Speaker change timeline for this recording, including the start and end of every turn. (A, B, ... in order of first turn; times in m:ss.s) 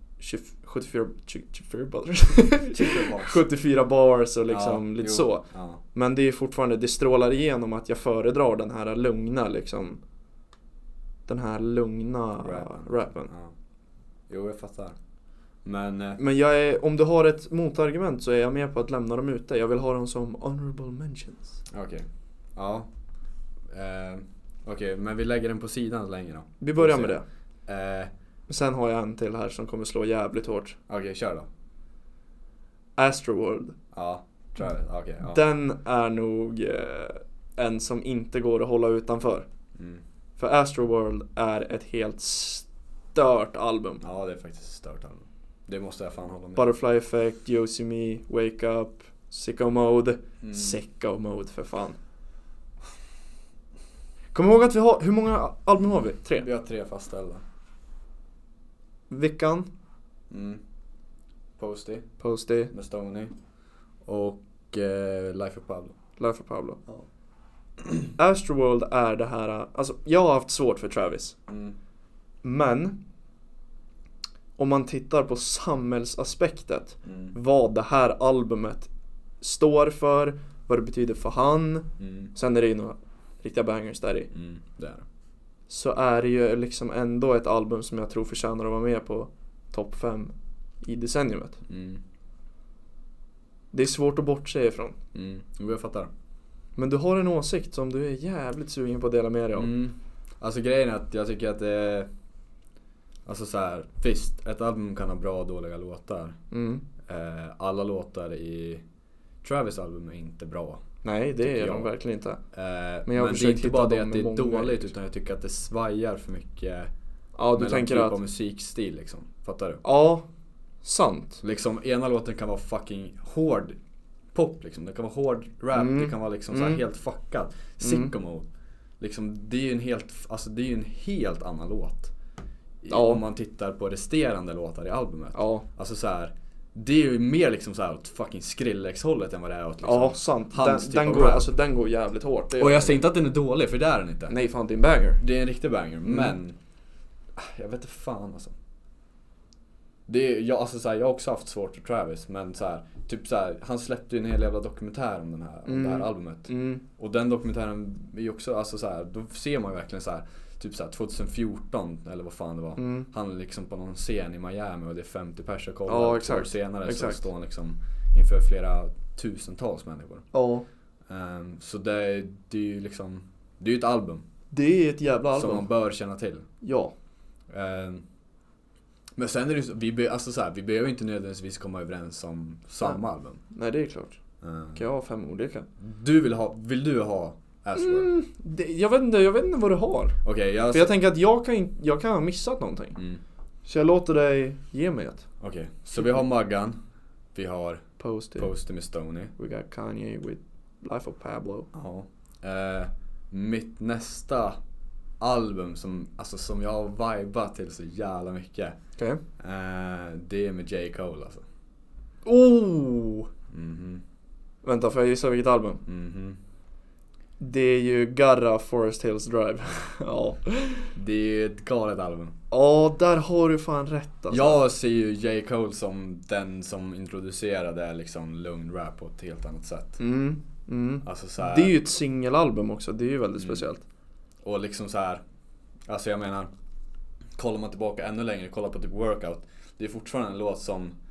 0:00.2-0:10.0 A
0:02.7-0:03.4 B
0:04.5-0:05.8 B
0:11.3-0:13.3 A
0:12.4-0:13.5 B
0:14.3-0:15.0 B
0:15.6-0:16.2 B
0:16.2-0:21.6 A
0:21.7-0:22.9 B
0:23.7-0:28.1 B
0:26.6-0:27.2 A
0:28.5-0:30.8 A
0:30.9-0:31.5 B
0:33.0-0:33.8 A
0:33.9-0:35.4 B
0:35.2-0:39.5 A
0:39.8-0:40.0 B
0:40.4-0:44.0 A
0:44.0-0:46.7 B
0:46.6-0:52.0 A
0:50.4-0:50.8 B
0:54.3-0:56.4 A
0:56.4-0:57.4 B
0:59.1-0:59.7 A
1:00.3-1:00.6 B
1:01.6-1:02.1 B
1:02.2-1:02.7 A
1:02.7-1:03.4 B
1:04.0-1:06.0 B
1:06.2-1:06.8 A
1:07.8-1:08.1 B
1:08.2-1:11.4 A
1:11.5-1:11.8 B
1:12.4-1:13.0 A
1:14.6-1:18.9 A
1:17.0-1:17.4 B
1:19.4-1:24.3 A
1:22.0-1:22.3 B
1:24.3-1:25.0 B
1:25.7-1:31.6 A
1:31.7-1:32.0 B
1:33.7-1:35.0 A
1:35.1-1:36.1 B
1:36.8-1:39.7 A
1:39.5-1:42.1 B
1:43.2-1:46.4 B
1:46.5-1:46.8 A
1:47.0-1:48.8 B
1:49.4-1:50.8 B
1:51.0-1:52.4 A
1:51.4-1:51.9 B
1:52.5-1:56.9 B
1:53.1-1:54.9 A
1:57.4-1:58.2 A
1:57.6-1:59.8 B
1:59.8-2:00.3 A
2:00.8-2:01.4 A
2:01.4-2:03.8 B
2:04.3-2:08.5 B
2:05.7-2:06.8 A
2:07.8-2:08.1 A
2:09.0-2:12.1 B
2:12.8-2:21.5 B
2:12.9-2:13.2 A
2:15.4-2:15.6 A
2:19.8-2:23.0 A
2:22.6-2:24.3 B
2:24.3-2:25.2 A
2:25.2-2:26.6 B
2:26.0-2:26.3 A
2:27.4-2:28.5 B
2:30.1-2:50.3 B
2:35.7-2:36.8 A
2:42.8-2:43.1 A
2:45.9-2:47.2 A
2:50.3-2:50.6 A
2:51.1-2:54.2 B
2:54.5-2:55.6 A
2:55.3-2:56.4 B
2:56.6-2:56.9 A
2:57.5-2:58.0 B
2:59.2-3:03.4 B
3:03.5-3:04.2 A
3:04.4-3:04.8 B
3:04.7-3:05.7 A
3:05.8-3:08.1 B
3:07.8-3:10.2 A
3:10.2-3:10.9 B
3:10.7-3:13.0 A
3:13.6-3:15.2 A
3:15.4-3:16.8 B
3:17.3-3:17.8 B
3:18.0-3:18.5 A
3:18.4-3:19.3 B
3:19.4-3:21.7 A
3:21.7-3:24.6 B
3:25.2-3:28.8 B
3:29.4-3:31.4 B
3:32.2-3:33.3 A
3:33.5-3:34.0 B
3:34.6-3:35.8 A
3:35.9-3:36.4 B
3:37.4-3:40.9 A
3:40.9-3:42.3 B
3:42.5-3:44.6 A
3:44.3-3:50.0 B
3:50.0-3:53.8 A
3:51.0-3:51.7 B
3:54.4-3:55.2 B
3:55.9-3:56.5 B
3:57.4-4:00.9 B